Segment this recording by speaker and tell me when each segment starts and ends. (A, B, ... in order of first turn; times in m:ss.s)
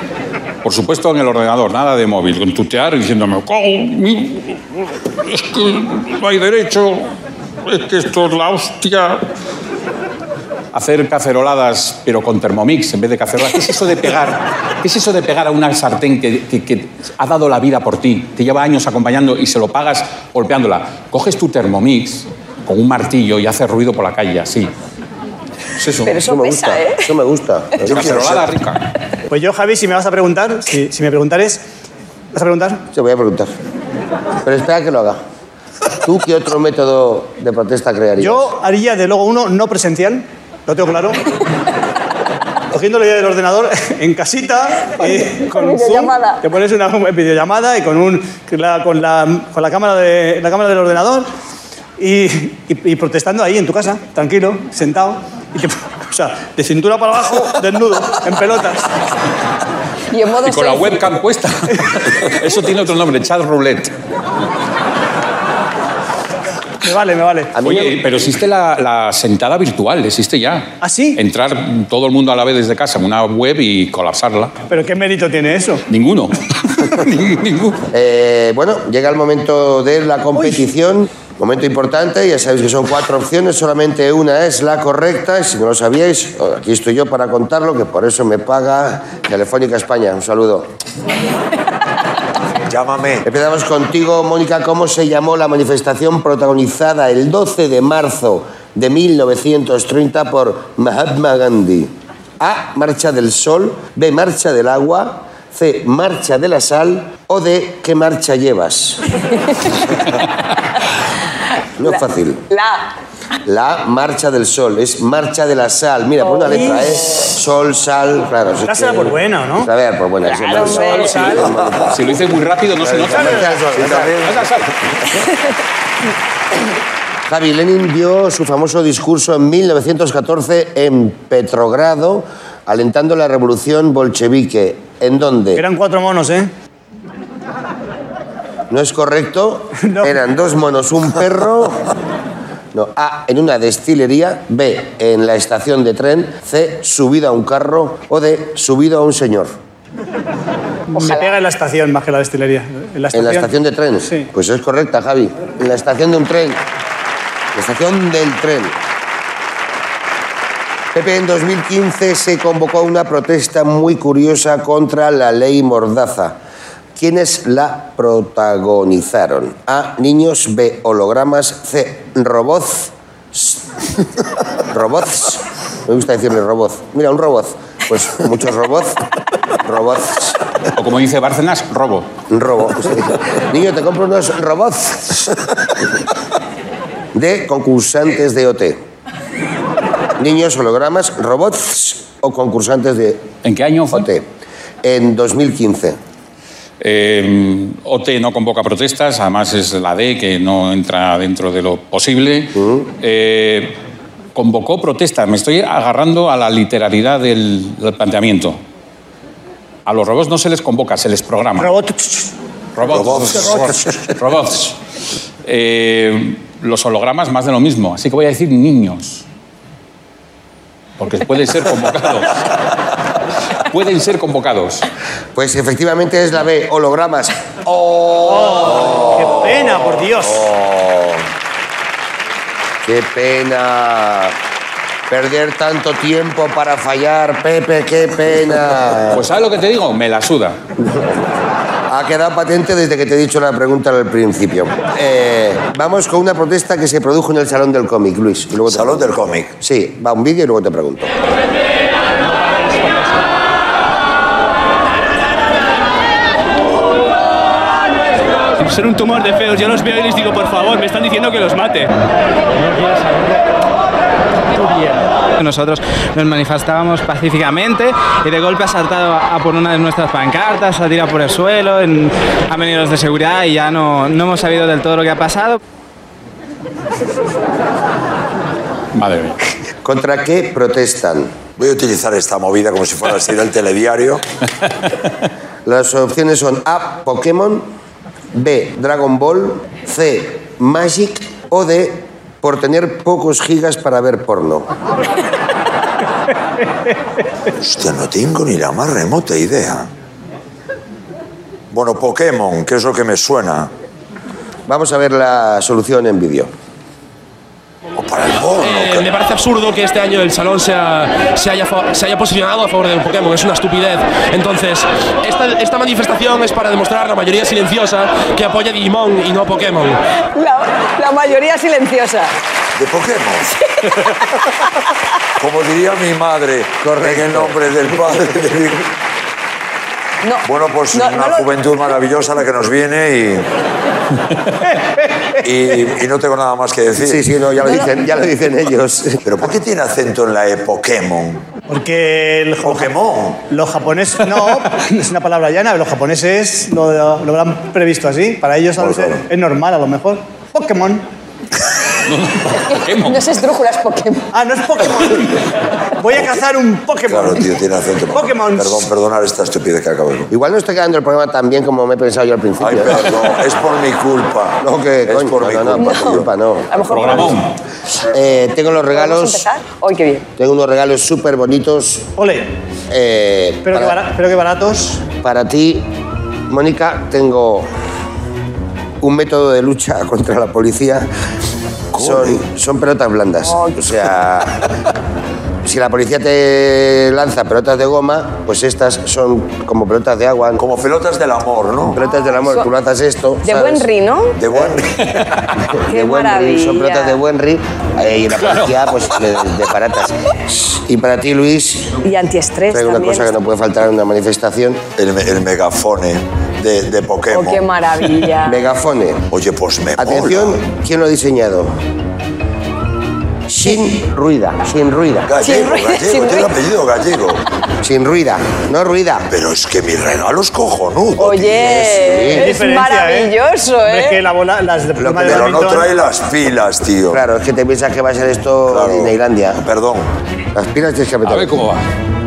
0:00.6-0:07.1 A
0:07.6-0:09.2 A
0:10.7-0:24.7 A
0:25.8-0:26.1 A
0:26.0-0:27.1 B
0:26.1-0:28.4 C
0:27.8-0:28.9 A
0:27.9-0:28.4 D
0:29.3-0:31.6 E
0:32.3-0:32.8 E
0:32.9-0:33.5 C
0:34.4-0:35.2 C
0:36.0-0:38.4 C
0:38.2-0:41.2 E
0:42.7-0:51.3 E
0:45.0-0:46.4 B
0:52.0-0:58.9 E
1:00.1-1:01.0 B
1:00.4-1:03.9 A
1:06.8-1:07.7 E
1:07.6-1:14.5 A
1:10.8-1:11.2 E
1:14.7-1:15.8 E
1:15.9-1:17.8 A
1:17.9-1:30.7 C
1:20.3-1:20.6 E
1:32.7-1:33.3 D
1:33.2-1:49.0 C
1:51.8-1:52.4 C
1:52.5-1:52.9 B
1:53.4-2:02.1 C
1:56.2-1:57.3 B
1:58.6-1:59.7 E
2:00.3-2:03.7 A
2:00.5-2:01.5 B
2:01.2-2:02.0 D
2:02.8-2:04.2 C
2:03.2-2:03.5 E
2:03.7-2:04.7 D
2:04.2-2:05.2 A
2:07.2-2:15.6 C
2:15.5-2:16.5 E
2:18.7-2:21.9 C
2:19.8-2:20.1 E
2:22.7-2:29.5 C
2:30.9-2:33.5 E
2:31.0-2:31.3 B
2:33.1-2:36.6 C
2:37.5-2:38.7 C
2:40.9-2:46.4 C
2:47.0-2:53.6 C
2:54.7-2:59.0 C
2:59.6-3:00.4 C
3:00.8-3:02.1 A
3:02.3-3:05.3 C
3:07.1-3:08.8 C
3:10.2-3:13.3 C
3:13.4-3:14.1 A
3:13.9-3:14.2 C
3:14.8-3:16.0 C
3:16.8-3:23.8 A
3:22.5-3:22.9 C
3:24.3-3:28.6 A
3:29.8-3:31.7 A
3:31.6-3:32.3 E
3:32.8-3:34.8 A
3:32.8-3:34.1 D
3:35.4-3:39.2 A
3:41.0-3:42.6 A
3:43.6-3:44.8 A
3:45.4-3:49.8 C
3:48.2-3:50.5 E
3:50.5-3:51.2 C
3:52.8-3:54.4 C
3:55.1-3:59.3 C
3:59.1-4:00.6 A
4:00.8-4:01.2 C
4:01.9-4:11.1 C
4:08.7-4:09.5 D
4:18.6-4:21.9 F
4:22.7-4:23.4 F
4:24.6-4:35.6 F
4:38.9-4:39.4 A
4:39.8-4:41.3 C
4:41.6-4:44.2 D
4:45.6-4:47.7 C
4:48.3-4:54.7 C
4:57.6-4:59.9 D
5:01.7-5:03.7 D
5:04.7-5:06.5 C
5:08.0-5:09.1 D
5:08.6-5:20.0 G
5:20.3-5:22.3 B
5:22.8-5:23.5 D
5:23.5-5:24.7 B
5:25.4-5:28.9 D
5:26.8-5:27.6 C
5:30.2-5:31.5 B
5:30.4-5:33.5 D
5:35.4-5:37.2 D
5:37.0-5:39.2 C
5:39.2-5:41.5 D
5:41.7-5:42.9 E
5:42.6-5:43.4 D
5:43.4-5:51.1 E
5:48.8-5:49.2 D
5:52.0-5:53.3 A
5:52.7-5:54.3 B
5:54.3-5:57.6 E
5:56.1-5:56.4 D
5:57.0-6:00.3 D
5:58.1-5:58.9 E
6:00.3-6:03.2 C
6:02.6-6:06.3 D
6:04.6-6:07.3 C
6:05.7-6:07.4 B
6:06.8-6:07.5 A
6:08.0-6:09.5 C
6:08.9-6:10.3 B
6:10.4-6:12.1 C
6:12.2-6:12.5 E
6:12.9-6:14.0 C
6:13.6-6:15.1 E
6:15.2-6:15.9 C
6:16.5-6:17.7 C
6:19.0-6:21.1 C
6:21.9-6:24.7 C
6:21.9-6:22.4 D
6:23.4-6:23.8 B
6:25.6-6:30.6 C
6:30.6-6:32.0 D
6:31.9-6:33.9 C
6:32.0-6:32.6 B
6:33.4-6:34.4 B
6:34.4-6:35.5 D
6:34.5-6:34.8 C
6:35.7-6:42.0 C
6:35.9-6:37.2 B
6:38.3-6:38.9 A
6:42.0-6:43.3 B
6:42.7-6:44.8 C
6:45.0-6:47.7 D
6:47.3-6:48.6 B
6:48.4-6:49.3 C
6:49.3-6:50.6 D
6:50.0-6:51.8 C
6:53.5-6:55.3 C
6:55.3-6:57.4 D
6:55.4-6:56.5 B
6:57.8-6:59.3 C
6:59.3-7:01.5 D
7:01.2-7:04.2 B
7:01.4-7:02.5 C
7:02.3-7:03.3 E
7:03.8-7:05.9 E
7:05.0-7:05.6 C
7:05.2-7:07.2 D
7:07.1-7:09.6 C
7:08.7-7:10.1 D
7:10.5-7:11.5 C
7:11.2-7:11.9 A